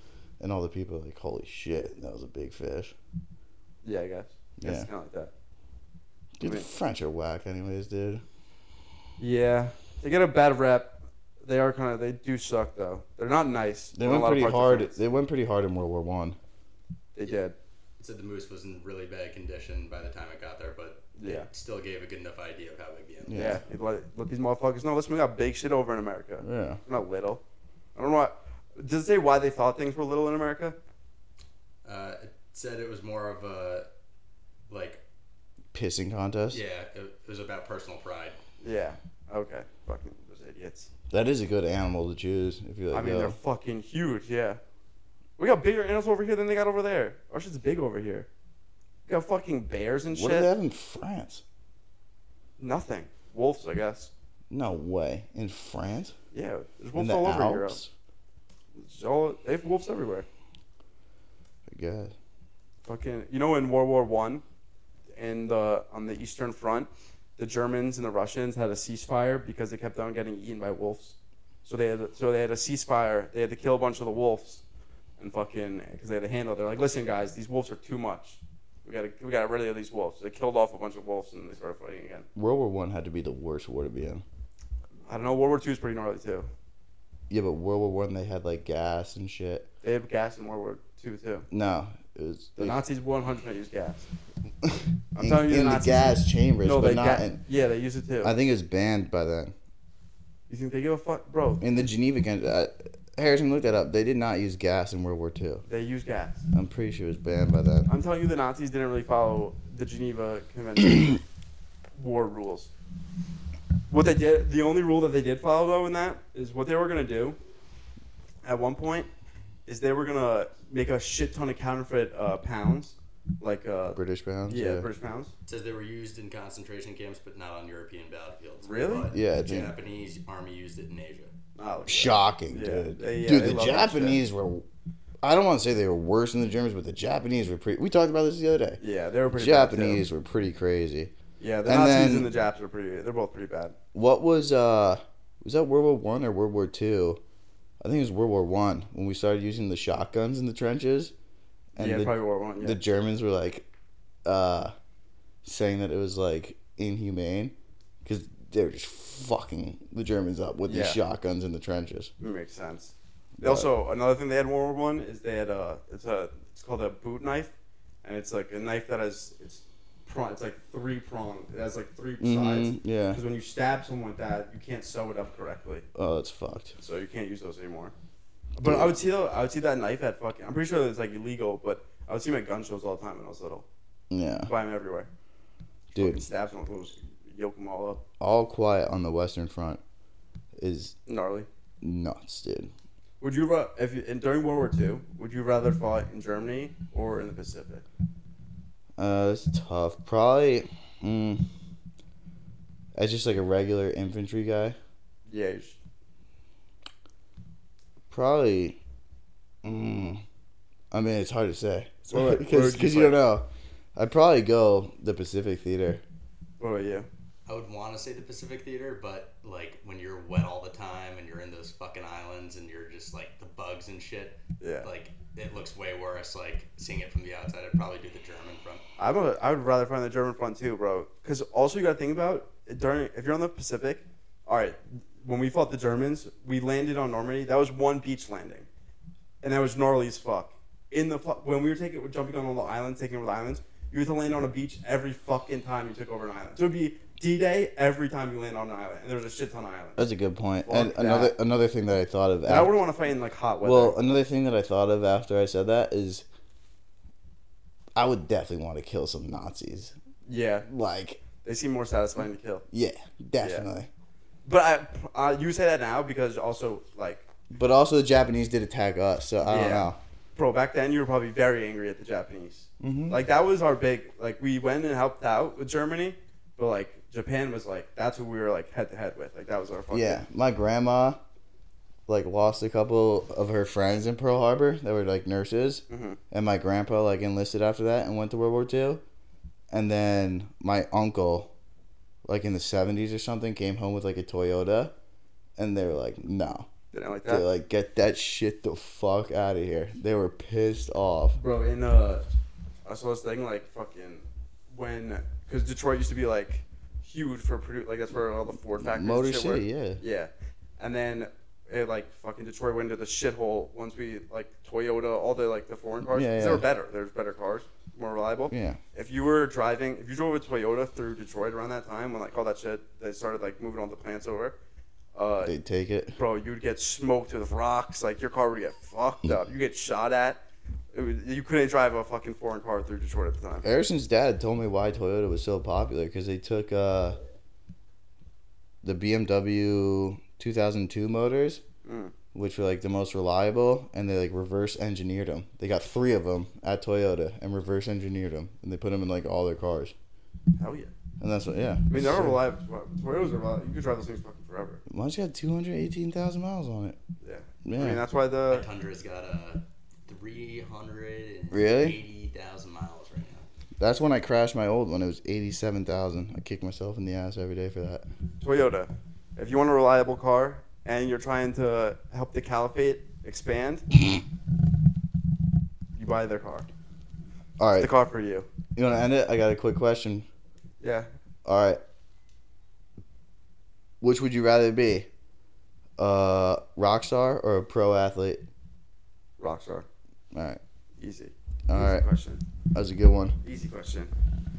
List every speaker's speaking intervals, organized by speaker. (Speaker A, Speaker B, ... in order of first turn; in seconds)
Speaker A: 0.4-2.9, 4.6-4.9, 6.4-8.2, 13.9-16.4, 23.2-23.6, 26.4-26.8, 35.7-36.6, 41.1-43.4, 50.1-51.4, 54.5-56.1, 57.0-57.9, 61.7-62.1, 82.3-84.2, 87.3-89.7, 91.5-92.8, 94.6-97.4, 98.2-99.5, 101.6-105.6, 106.5-107.9, 123.9-124.8, 129.1-129.7, 131.9-134.6, 135.2-138.8, 139.3-141.1, 141.7-142.3, 143.9-147.2, 147.8-151.1, 151.7-153.7, 154.2-154.7, 155.4-162.1, 163.4-163.7, 172.2-173.2, 175.9-176.8, 178.6-178.9, 184.1-184.5, 185.9-186.2, 188.2-189.8, 190.6-190.9, 191.8-192.7, 199.0-201.5, 202.9-204.8, 208.1-208.8, 209.6-210.2, 210.9-216.0, 250.0-252.8, 253.6-256.2, 257.9-259.9, 260.6-261.2, 262.7-263.9, 267.5-270.0, 272.8-273.2, 279.9-281.2, 282.1-289.0, 289.7-291.5, 292.2-294.9, 295.6-296.7, 297.3-301.4, 308.8-310.0, 316.1-316.7, 318.5-318.8, 325.4-326.2, 333.6-337.2, 338.8-341.6, 342.3-349.9, 351.2-352.4, 354.9-357.0, 357.6-358.0, 361.5-362.0, 363.8-368.1, 377.6-377.9, 378.7-380.3, 381.4-381.8, 384.0-385.1, 386.0-388.4, 390.3-390.6, 391.7-392.0, 392.7-393.4
Speaker B: 3.8-5.3, 9.2-15.0, 17.1-17.6, 21.1-21.5, 23.3-27.4, 27.9-30.8, 38.6-40.9, 42.9-44.6, 45.4-48.3, 49.1-50.5, 52.6-54.1, 56.3-57.8, 58.8-60.2, 62.8-64.4, 65.2-74.6, 75.2-82.3, 85.1-86.5, 89.8-91.5, 92.6-94.1, 95.1-98.3, 100.5-101.6, 105.7-106.4, 107.9-111.2, 111.9-112.7, 113.9-117.4, 118.4-119.1, 119.7-125.3, 128.6-129.1, 131.6-134.2, 138.8-140.0, 141.4-143.7, 151.8-152.8, 160.7-161.0, 162.2-175.8, 176.8-177.9, 178.6-183.6, 184.5-185.1, 185.9-188.0, 191.1-191.5, 193.2-197.8, 205.3-205.8, 212.1-213.2, 216.6-217.1, 224.6-224.9, 229.0-238.7, 239.4-250.0, 250.7-251.3, 252.5-254.0, 260.2-260.7, 261.4-262.6, 263.4-263.7, 264.4-267.3, 269.4-280.2, 285.9-286.2, 296.9-297.4, 301.4-302.2, 302.8-324.6, 325.1-325.5, 326.1-330.4, 330.9-333.6, 341.8-342.1, 350.6-350.9, 351.9-354.8, 357.2-358.6, 368.4-373.9, 375.9-376.7, 377.8-378.5, 380.8-381.1, 389.4-389.9, 391.0-392.4, 393.4-394.1
Speaker C: 18.0-23.6, 31.8-33.9, 34.7-35.0, 36.5-38.4, 125.5-131.3, 217.4-228.8, 358.5-363.5